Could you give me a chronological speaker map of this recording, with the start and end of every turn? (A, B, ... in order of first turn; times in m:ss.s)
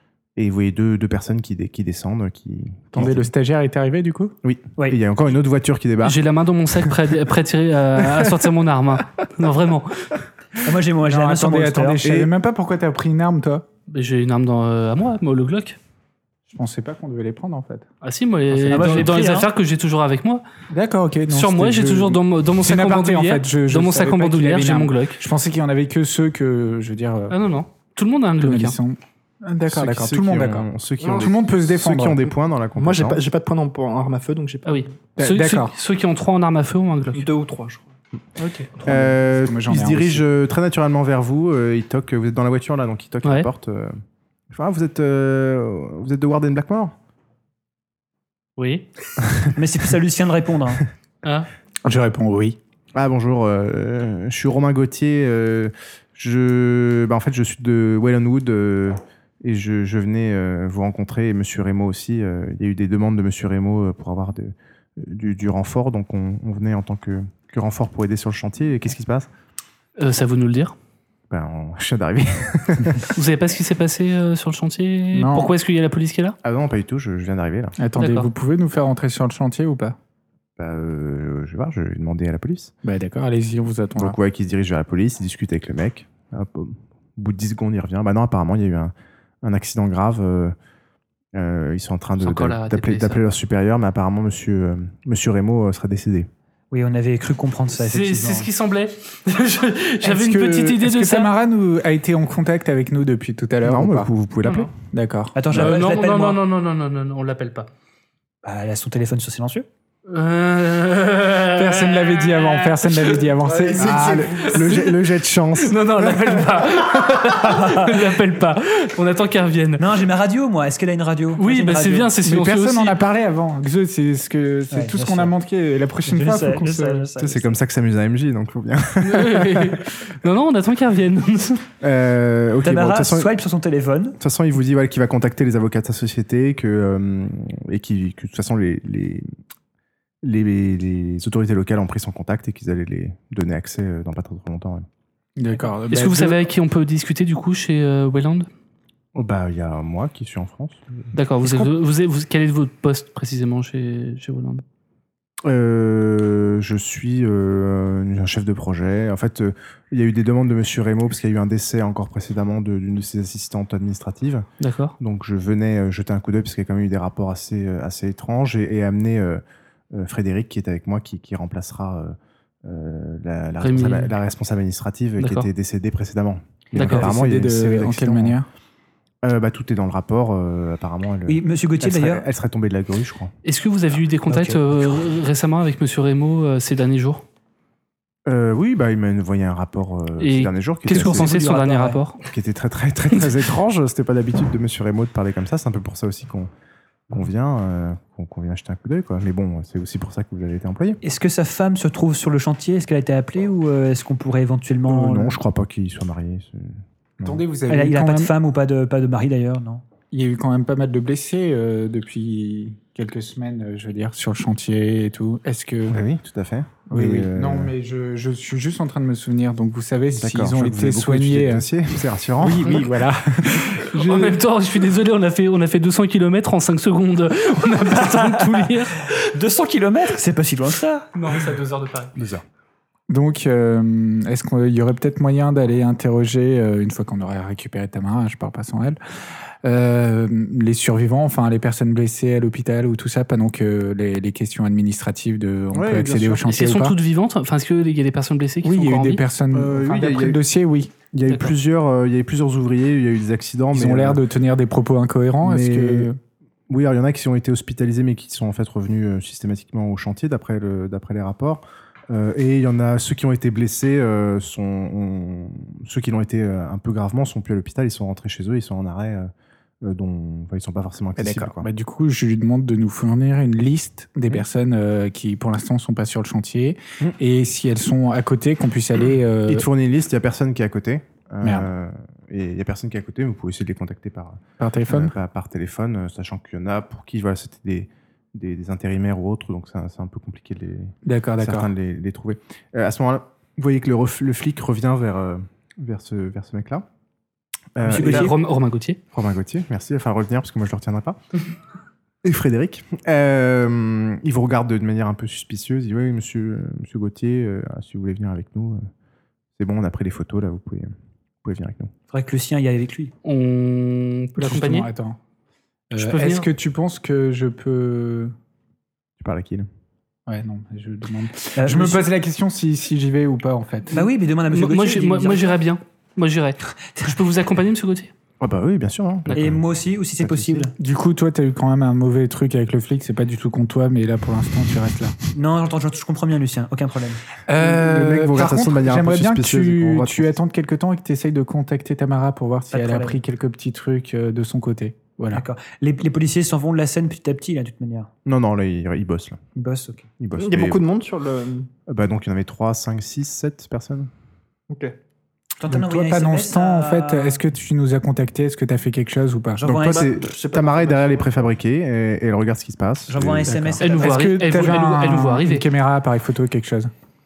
0:00.4-0:03.3 A
0:02.9-0:04.4 B
0:04.4-0:06.2 A
0:06.0-0:10.2 C
0:08.1-0:08.4 A
0:10.6-0:12.3 D
0:11.0-0:13.6 B
0:13.9-0:15.8 C
0:16.5-0:17.9 B
0:18.0-0:20.4 C
0:18.5-0:19.3 B
0:18.7-0:19.5 D
0:20.7-0:27.4 B
0:21.3-0:25.2 C
0:27.3-0:28.8 C
0:28.4-0:32.3 B
0:29.7-0:33.2 A
0:31.0-0:31.3 E
0:32.8-0:34.9 E
0:34.6-0:37.3 C
0:35.2-0:35.7 B
0:37.1-0:37.9 E
0:38.4-0:38.7 C
0:38.8-0:40.2 B
0:38.8-0:44.0 A
0:44.5-0:47.0 A
0:48.6-0:48.9 C
0:49.6-0:50.9 D
0:51.2-0:51.5 C
0:51.8-0:52.6 B
0:53.0-1:09.3 A
1:10.0-1:10.8 C
1:11.3-1:13.1 A
1:13.2-1:16.4 C
1:15.1-1:15.6 B
1:16.4-1:17.8 A
1:17.8-1:20.0 B
1:18.0-1:18.3 C
1:20.6-1:22.7 A
1:22.8-1:24.2 B
1:24.0-1:30.6 A
1:31.3-1:36.3 A
1:32.2-1:33.2 C
1:36.7-1:38.5 D
1:37.8-1:41.3 C
1:40.0-1:44.1 B
1:43.6-1:44.7 A
1:44.9-1:45.7 B
1:45.4-1:46.4 D
1:45.5-1:47.7 C
1:48.4-1:49.7 D
1:50.1-1:53.4 C
1:51.6-1:54.4 B
1:53.4-1:54.2 E
1:53.8-1:56.5 A
1:54.3-1:55.0 C
1:55.6-1:59.9 C
1:57.3-1:58.1 D
1:59.8-2:02.2 D
2:01.4-2:03.0 C
2:02.2-2:07.1 B
2:04.7-2:05.3 D
2:06.1-2:07.5 D
2:07.2-2:09.8 A
2:09.0-2:11.6 C
2:11.8-2:13.3 A
2:12.6-2:14.2 D
2:14.2-2:19.3 A
2:20.2-2:24.9 A
2:25.4-2:26.4 B
2:25.9-2:28.5 C
2:29.2-2:31.0 A
2:31.1-2:34.6 C
2:35.4-2:44.5 A
2:44.6-2:45.0 C
2:45.0-2:49.4 A
2:49.9-2:58.4 A
2:53.6-2:54.1 C
2:55.2-2:55.5 C
2:56.8-2:57.2 C
2:56.8-2:58.5 B
2:59.2-3:03.3 A
3:01.3-3:02.3 D
3:03.4-3:07.2 C
3:04.3-3:05.0 D
3:08.3-3:11.4 A
3:10.2-3:12.2 C
3:10.9-3:12.0 D
3:12.2-3:16.5 A
3:17.1-3:21.0 A
3:21.0-3:25.4 D
3:24.9-3:27.4 A
3:27.2-3:28.3 B
3:27.7-3:29.8 D
3:30.1-3:36.0 B
3:35.9-3:37.7 A
3:36.9-3:41.7 B
3:40.2-3:43.0 A
3:42.4-3:44.4 B
3:43.9-3:49.0 C
3:47.9-3:51.1 D
3:51.2-3:52.1 C
3:52.2-3:52.4 A
3:53.1-3:59.0 B
3:59.6-4:07.0 B
4:05.7-4:06.5 A
4:06.5-4:09.2 C
4:08.6-4:11.0 B
4:09.5-4:10.4 A
4:11.1-4:14.2 A
4:13.7-4:16.2 B
4:15.4-4:16.1 A
4:16.7-4:29.3 A
4:29.8-4:31.7 A
4:31.2-4:39.7 B
4:39.5-4:56.9 A
4:41.4-4:41.7 B
4:44.6-4:45.1 B
4:51.0-4:51.7 B
4:57.8-4:58.3 A
4:57.8-4:58.4 D
4:57.9-4:59.0 C
4:59.1-5:01.2 A
5:02.2-5:08.8 A
5:09.6-5:10.9 A
5:11.4-5:11.9 A
5:12.1-5:13.1 D
5:13.2-5:14.9 C
5:14.4-5:15.2 B
5:15.9-5:18.3 B
5:16.0-5:16.5 C
5:19.2-5:19.7 A
5:20.3-5:24.0 B
5:21.6-5:22.1 D
5:23.9-5:25.6 D
5:24.5-5:28.1 C
5:28.4-5:29.6 A
5:29.3-5:30.7 D
5:30.2-5:30.7 A
5:30.8-5:35.2 B
5:35.3-5:37.2 D
5:37.5-5:45.4 B
5:37.6-5:40.3 A
5:42.7-5:43.2 D
5:45.3-5:48.1 D
5:48.3-5:49.4 A
5:49.6-5:50.1 D
5:50.2-5:50.8 A
5:50.4-5:51.7 E
5:51.9-5:54.1 A
5:54.7-5:55.0 E
5:55.6-5:57.4 D
5:55.7-5:59.6 B
5:59.6-6:00.2 D
5:59.6-6:03.6 A
6:00.0-6:01.4 E
6:03.1-6:04.2 D
6:03.5-6:06.9 B
6:03.8-6:05.7 C